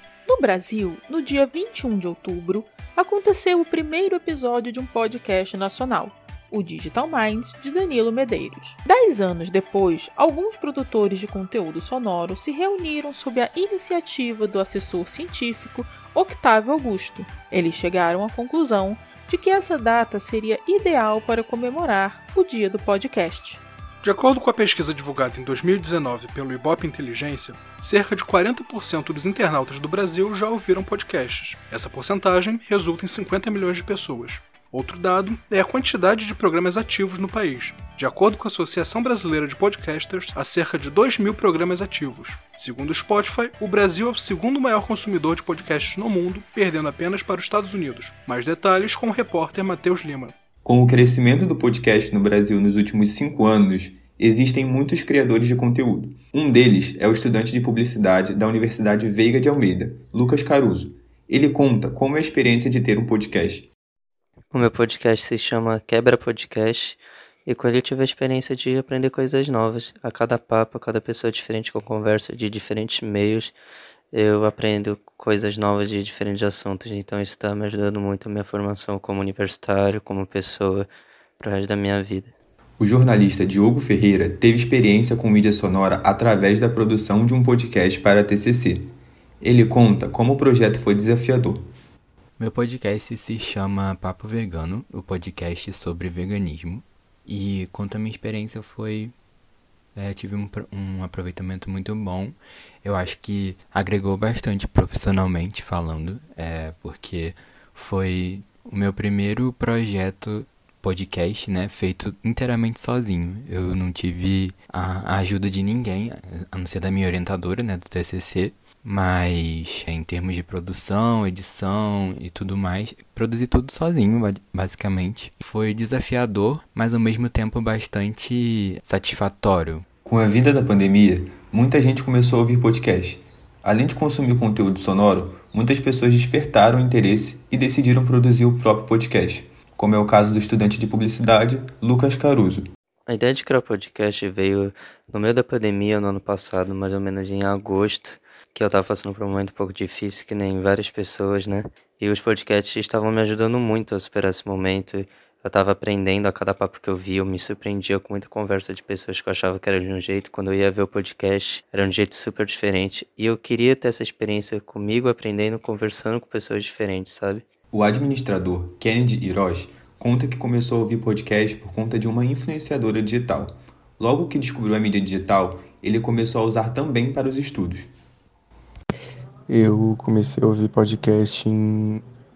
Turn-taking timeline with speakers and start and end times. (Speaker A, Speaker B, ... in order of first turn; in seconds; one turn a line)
Speaker A: 0.2-23.6
Speaker B: 24.0-50.3
Speaker C: 50.6-63.7
Speaker D: 64.5-73.5
Speaker D: 74.1-80.9
Speaker D: 81.4-82.3
Speaker C: 82.8-91.7
Speaker E: 92.4-99.1
Speaker E: 99.9-129.8
Speaker C: 130.0-142.6
Speaker D: 143.1-167.4
Speaker C: 167.7-177.9
Speaker F: 179.5-182.0